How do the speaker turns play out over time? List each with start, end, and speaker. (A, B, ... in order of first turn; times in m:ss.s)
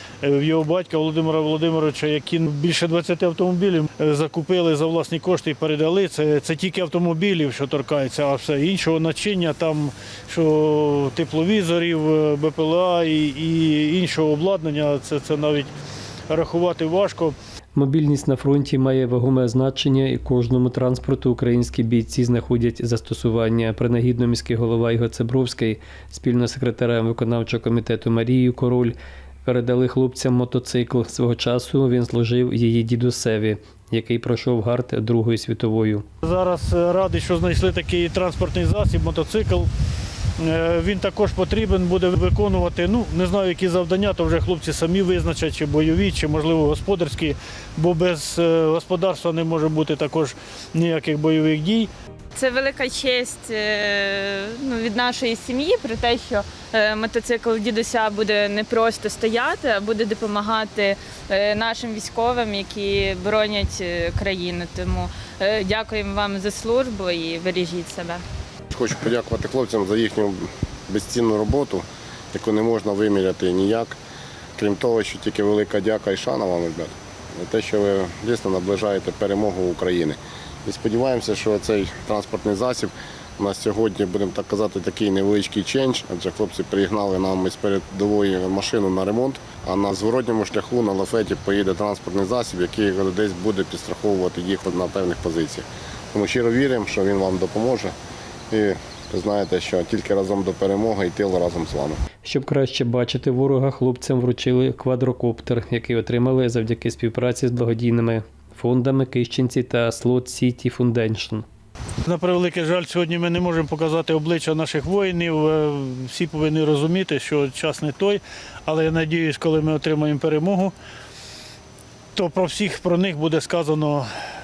0:00.2-0:15.7 A
0:16.3-0:17.3 A
0:17.7-0:36.0 B
0:36.2-0:39.7 A
0:40.4-0:51.9 A
0:52.3-1:08.2 C
1:08.7-1:14.0 D
1:14.6-1:37.9 D
1:38.5-1:42.0 D
1:42.2-1:51.4 B
1:52.0-2:00.7 A
2:02.1-2:04.1 A